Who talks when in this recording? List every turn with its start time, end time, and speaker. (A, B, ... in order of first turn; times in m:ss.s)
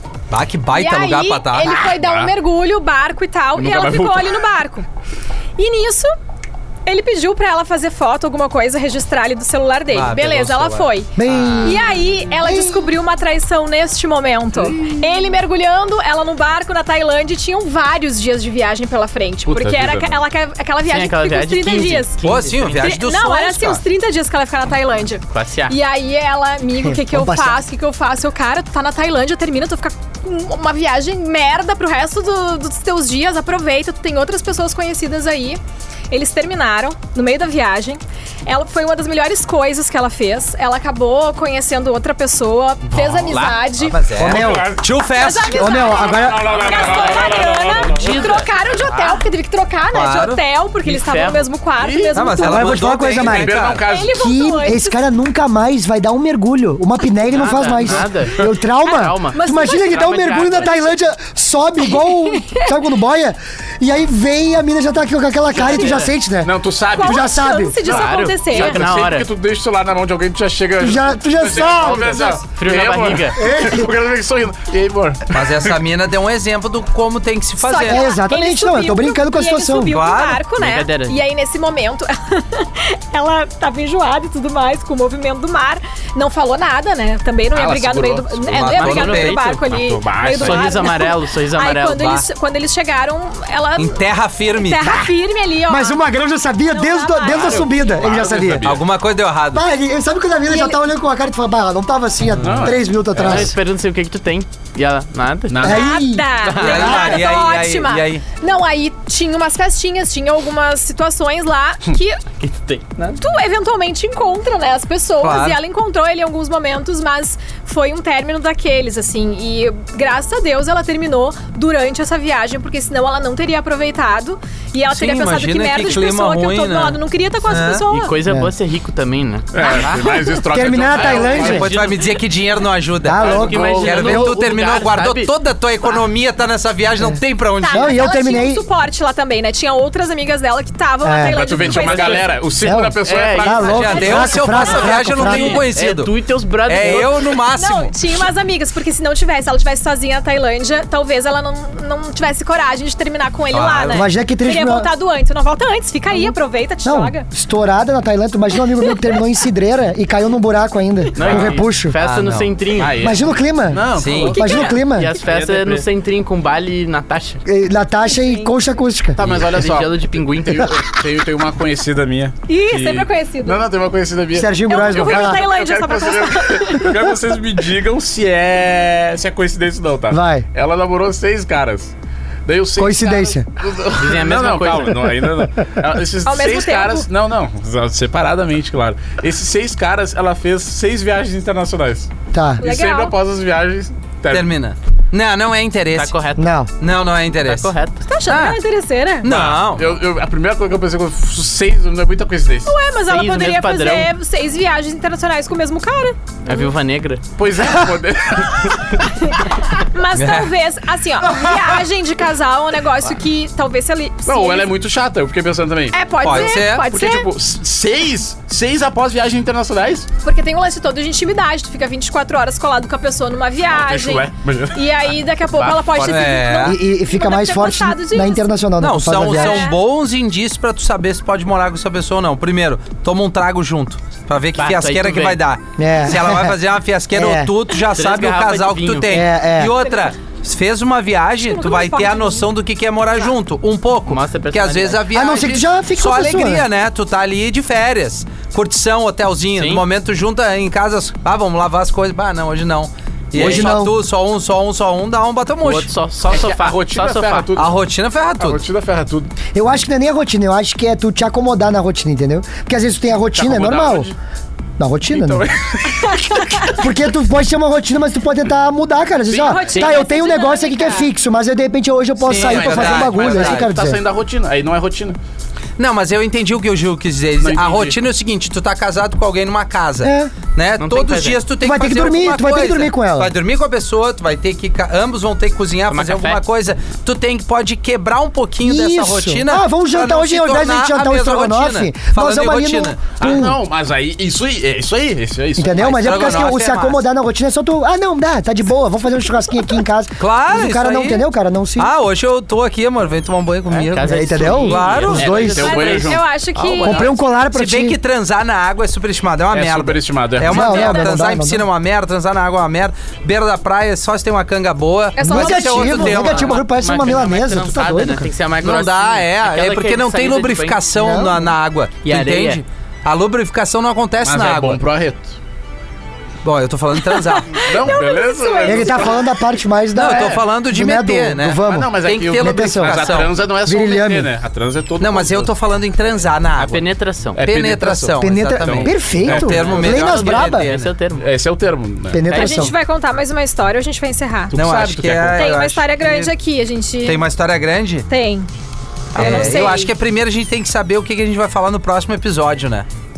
0:00.3-0:02.0 A
0:00.7-0:04.8 B
0:01.8-0:02.3 C
0:03.6-0:04.4 C
0:05.6-0:06.1 B
0:06.8-0:22.2 B
0:09.9-0:10.9 A
0:11.2-0:12.9 D
0:14.6-0:15.0 C
0:19.4-0:20.2 C
0:20.9-0:22.9 E
0:22.2-0:23.8 A
0:22.8-0:35.6 B
0:25.3-0:25.8 E
0:26.8-0:27.6 D
0:36.1-0:44.0 B
0:42.9-0:43.5 C
0:43.3-0:43.6 E
0:43.8-0:46.0 A
0:44.1-0:44.8 D
0:44.2-0:44.8 C
0:45.1-0:52.9 B
0:45.5-0:46.6 D
0:45.8-0:48.3 C
0:47.8-0:49.2 E
0:49.9-0:50.4 A
0:50.8-0:51.5 E
0:51.8-0:52.2 C
0:52.1-0:53.8 A
0:52.4-1:07.8 D
0:53.1-0:54.2 C
0:53.8-0:55.0 B
0:57.3-0:59.4 E
0:59.0-1:00.8 B
1:01.8-1:02.7 B
1:05.5-1:06.1 E
1:05.6-1:06.1 B
1:06.4-1:15.8 C
1:06.9-1:08.8 B
1:07.8-1:09.3 E
1:10.8-1:12.4 D
1:12.5-1:13.4 E
1:13.4-1:13.9 D
1:15.3-1:18.1 A
1:17.6-1:34.0 B
1:17.8-1:20.0 D
1:19.8-1:20.4 A
1:20.6-1:21.2 E
1:27.5-1:28.8 C
1:28.5-1:29.4 A
1:28.7-1:29.7 E
1:29.7-1:30.9 C
1:30.2-1:32.1 E
1:32.0-1:32.2 A
1:33.8-1:35.0 A
1:34.5-1:36.0 B
1:35.7-1:38.8 D
1:36.7-1:37.7 B
1:37.9-1:38.8 C
1:38.6-1:39.6 A
1:39.5-1:43.5 D
1:40.5-1:40.8 B
1:42.4-1:42.7 A
1:42.4-1:43.4 C
1:43.1-1:45.8 E
1:45.5-1:45.9 C
1:45.6-1:47.3 D
1:45.6-1:52.2 B
1:46.4-1:47.0 E
1:46.6-1:48.2 A
1:52.4-1:53.2 E
1:53.2-2:08.2 B
1:55.2-1:55.6 A
2:04.8-2:07.8 A
2:07.9-2:09.5 E
2:08.2-2:08.5 D
2:09.5-2:11.9 C
2:09.6-2:10.4 B
2:09.8-2:10.1 A
2:10.4-2:11.7 D
2:11.0-2:18.1 A
2:11.0-2:12.0 E
2:13.0-2:14.4 D
2:13.2-2:14.1 C
2:13.2-2:16.0 E
2:17.6-2:22.3 B
2:17.7-2:18.6 D
2:21.0-2:21.4 D
2:21.3-2:24.4 C
2:21.7-2:22.2 E
2:22.6-2:25.6 D
2:23.0-2:24.1 E
2:23.7-2:28.2 A
2:23.8-2:25.1 B
2:25.0-2:27.2 E
2:27.4-2:37.2 B
2:33.5-2:34.1 A
2:33.9-2:34.9 D
2:36.8-2:42.0 D
2:38.7-2:39.2 B
2:41.1-2:43.0 E
2:41.2-2:41.6 C
2:42.0-2:42.5 A
2:42.8-2:45.8 C
2:43.0-2:45.1 D
2:43.9-2:44.4 A
2:44.3-2:44.8 B
2:44.8-2:47.4 E
2:47.4-2:49.2 D
2:48.1-2:48.5 B
2:49.2-3:01.9 C
2:49.3-2:50.8 E
2:52.5-2:53.6 B
2:54.3-2:55.4 D
2:54.7-2:57.0 B
3:00.1-3:00.4 D
3:02.5-3:12.1 C
3:02.8-3:03.4 D
3:04.0-3:05.0 E
3:06.2-3:07.1 B
3:12.3-3:12.6 D
3:12.6-3:13.1 B
3:12.6-3:14.5 C
3:14.3-3:16.2 A
3:15.9-3:16.5 E
3:16.4-3:16.7 D
3:16.8-3:17.7 A
3:17.4-3:18.0 E
3:18.0-3:19.3 B
3:18.3-3:18.6 A
3:19.2-3:19.9 A
3:19.2-3:22.7 C
3:22.6-3:26.7 B
3:23.1-3:24.1 E
3:26.4-3:27.2 E
3:27.4-3:29.4 C
3:29.2-3:34.7 B
3:30.1-3:30.5 A
3:34.2-3:40.1 C
3:35.9-3:37.3 B
3:36.2-3:36.9 A
3:40.2-3:48.6 B
3:43.7-3:46.1 C
3:46.0-3:46.8 A
3:46.6-3:49.7 D
3:48.8-4:15.9 A
3:49.2-3:49.8 B
3:54.6-3:55.4 E
3:55.8-3:56.6 D
3:57.1-3:57.5 D
3:57.9-3:59.2 E
3:59.1-3:59.7 D
3:59.8-4:00.1 B
4:01.4-4:02.5 B
4:04.1-4:05.0 E
4:05.1-4:06.6 D
4:09.6-4:09.8 E
4:13.3-4:13.9 D
4:15.6-4:17.5 E
4:16.3-4:17.8 C
4:17.6-4:18.6 A
4:18.4-4:19.3 C
4:19.5-4:24.1 D
4:23.3-4:24.2 C
4:24.8-4:25.5 D
4:25.1-4:26.9 C
4:26.2-4:26.5 B
4:26.7-4:34.0 D
4:29.3-4:30.0 C
4:29.3-4:31.1 B
4:32.2-4:33.7 A
4:32.2-4:35.2 C
4:35.8-4:53.4 A
4:37.4-4:38.0 C
4:40.0-4:40.3 D
4:40.8-4:41.4 E
4:41.6-4:43.3 D
4:45.9-4:46.4 E
4:48.6-4:53.6 D
4:53.2-4:56.3 C
4:55.6-5:01.9 D
4:55.8-4:57.0 A
5:00.2-5:01.2 A
5:01.8-5:05.4 A
5:03.7-5:07.1 E
5:04.0-5:05.7 D
5:04.6-5:06.2 C
5:05.6-5:07.2 B
5:06.8-5:08.0 D
5:07.5-5:16.6 A
5:09.5-5:11.1 C
5:10.4-5:11.6 D
5:15.2-5:16.3 B
5:15.2-5:18.3 D
5:16.3-5:20.8 E
5:18.6-5:24.8 A
5:20.9-5:21.5 D
5:22.0-5:22.6 E
5:24.2-5:25.4 C
5:26.4-5:27.9 A
5:27.0-5:29.3 B
5:27.6-5:29.3 C
5:28.6-5:34.3 D
5:29.9-5:33.3 A
5:31.6-5:35.5 C
5:35.0-5:36.8 A
5:36.6-5:37.4 E
5:37.3-5:39.6 C
5:37.4-5:40.9 A
5:38.2-5:40.7 D
5:39.4-5:41.2 E
5:41.2-5:42.2 C
5:42.1-5:42.7 D
5:42.3-5:44.5 B
5:42.3-5:42.7 E
5:44.5-5:45.6 C
5:44.5-5:46.3 A
5:45.3-5:47.2 B
5:47.0-5:48.1 A
5:48.1-5:48.5 B
5:49.1-5:49.9 B
5:49.1-5:52.9 A